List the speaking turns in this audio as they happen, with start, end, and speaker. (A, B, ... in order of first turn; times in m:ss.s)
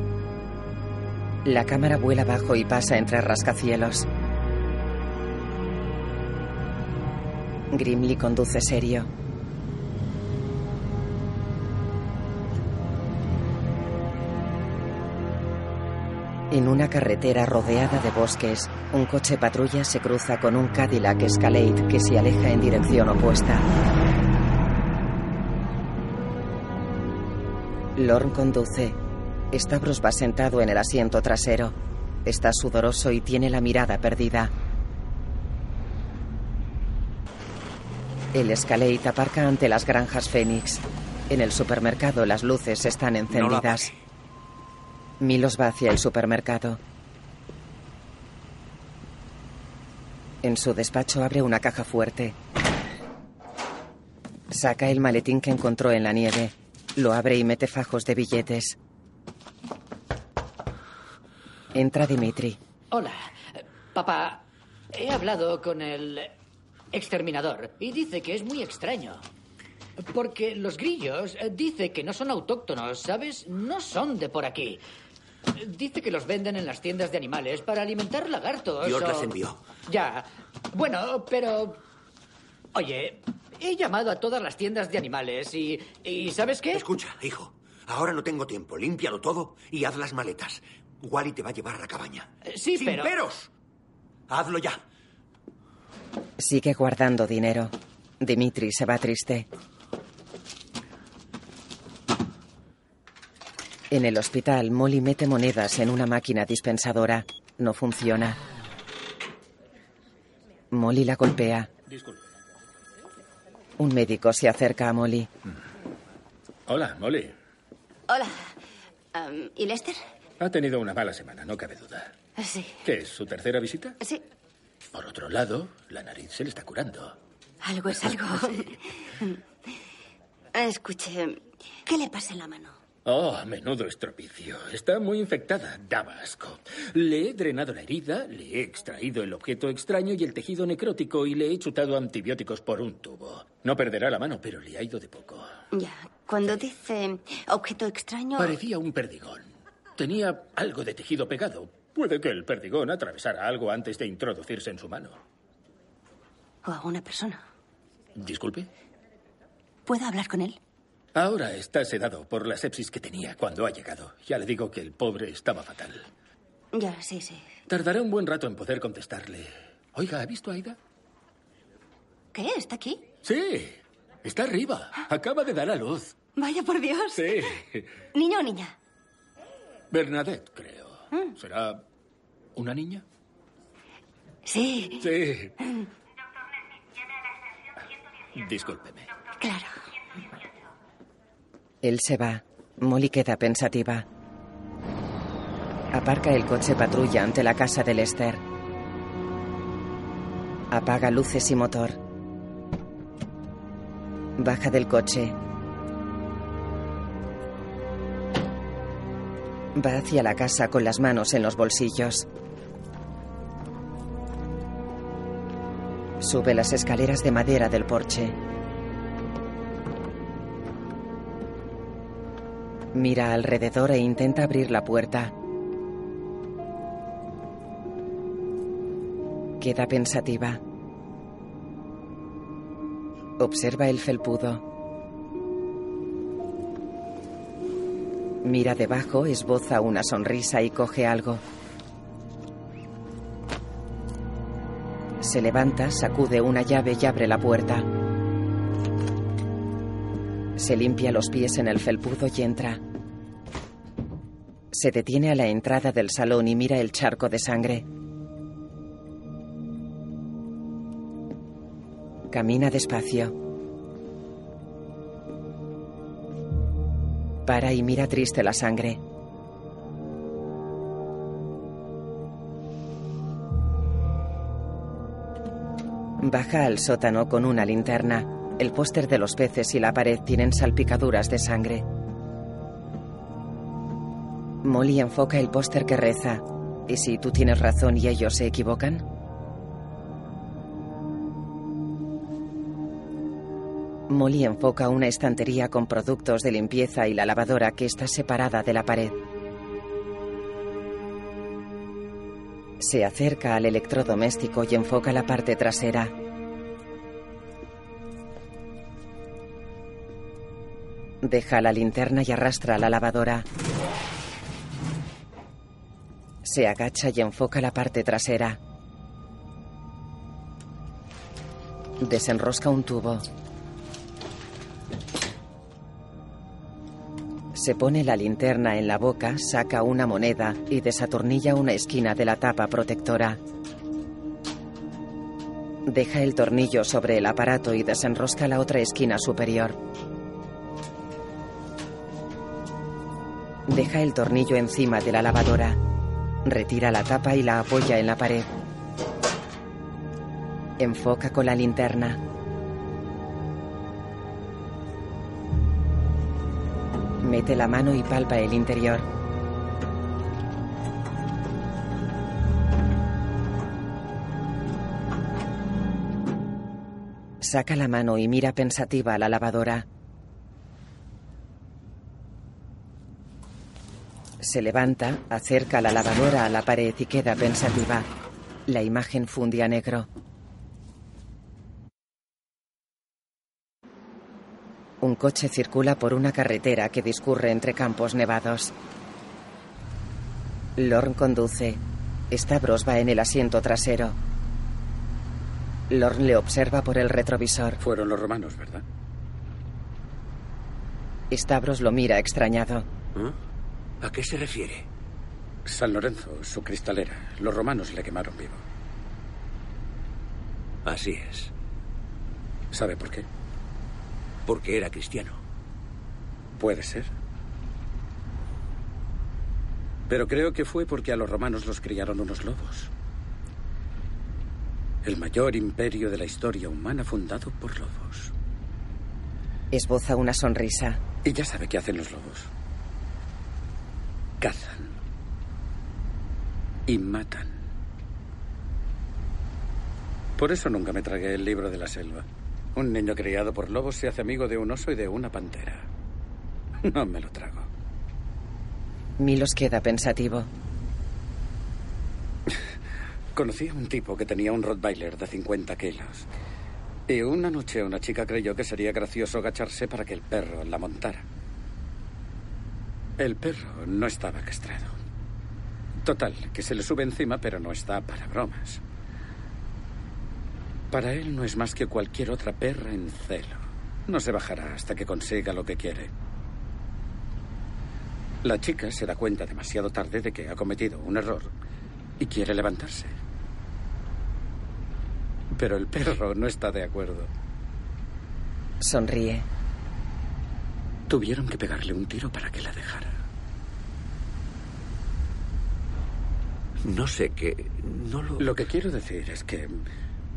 0:01.4-0:04.1 A
0:07.7-0:09.1 A
0:16.5-0:23.7 A
0:28.0-0:29.0 A
0:29.5-0:34.5 A
0:38.3-0:43.9 A
0:45.2-0:46.8 A
0:50.4-0:52.4 A
0:54.5-0:58.8 A
1:01.7-1:02.6 A
1:02.9-1:06.3 B
1:06.9-1:09.2 B
1:10.1-1:14.8 B
1:15.6-1:19.3 B
1:18.8-1:19.6 C
1:19.9-1:21.8 B
1:22.7-1:26.9 B
1:26.7-1:33.5 C
1:32.4-1:33.2 B
1:34.3-1:34.8 C
1:36.4-1:39.5 A
1:43.9-1:48.4 A
1:50.7-1:51.7 A
1:53.8-1:55.3 A
1:56.7-1:57.4 D
1:58.1-1:58.6 E
1:59.1-2:00.0 E
2:00.4-2:02.2 D
2:02.4-2:02.8 E
2:02.8-2:04.0 D
2:04.9-2:07.2 D
2:07.6-2:09.4 E
2:10.5-2:12.8 E
2:13.0-2:25.5 D
2:25.7-2:28.6 E
2:28.4-2:35.2 D
2:36.6-2:37.4 E
2:38.2-2:38.7 D
2:39.9-2:40.6 E
2:41.2-2:46.1 D
2:46.7-2:47.5 E
2:47.7-2:50.8 D
2:52.3-2:53.1 E
2:53.2-2:56.2 D
2:56.4-2:57.4 E
2:57.1-2:57.9 D
2:58.1-2:58.8 E
2:59.9-3:01.8 D
3:02.6-3:03.0 D
3:04.5-3:05.1 E
3:05.0-3:05.5 D
3:08.4-3:09.2 D
3:09.4-3:09.8 E
3:11.8-3:14.1 A
3:15.9-3:18.4 A
3:20.7-3:22.0 A
3:24.4-3:25.4 A
3:29.8-3:32.3 A
3:36.2-3:38.4 A
3:42.9-3:45.3 A
3:49.6-3:50.6 A
3:53.4-3:54.6 A
3:58.4-4:01.4 A
4:05.2-4:07.9 A
4:10.6-4:12.8 A
4:14.7-4:17.9 A
4:22.3-4:23.4 A
4:27.4-4:29.0 A
4:36.2-4:41.8 A
4:44.6-4:49.0 A
4:54.1-4:59.2 A
5:02.8-5:06.1 A
5:11.2-5:13.5 A
5:16.4-5:18.6 A
5:22.0-5:23.2 A
5:27.5-5:33.4 A
5:35.9-5:39.8 A
5:43.7-5:45.8 A
5:46.4-5:48.5 A
5:50.8-5:52.2 A
5:57.2-5:59.1 A
6:07.4-6:09.9 A
6:14.4-6:18.1 A
6:18.7-6:20.1 A
6:25.0-6:28.7 A
6:30.8-6:34.2 A
6:35.9-6:37.8 A
6:37.8-6:38.8 F
6:41.3-6:42.9 A
6:44.0-6:44.9 C
6:45.7-6:48.6 F
6:50.8-6:51.5 C
6:52.7-6:53.3 F
6:54.5-6:55.4 C
6:56.6-6:57.1 F
7:00.1-7:02.9 F
7:05.0-7:08.3 F
7:09.7-7:11.0 A
7:11.2-7:12.5 F
7:14.4-7:15.0 F
7:16.9-7:17.6 F
7:20.4-7:25.9 F
7:26.8-7:27.7 F
7:29.2-7:30.5 A
7:33.4-7:36.3 F
7:37.1-7:41.2 F
7:43.2-7:45.0 F
7:46.0-7:48.8 F
7:50.9-7:56.1 F
7:58.4-8:01.5 F
8:02.2-8:03.2 F
8:05.5-8:07.3 F
8:08.8-8:09.5 A
8:11.1-8:13.2 F
8:16.8-8:18.4 C
8:18.4-8:19.8 F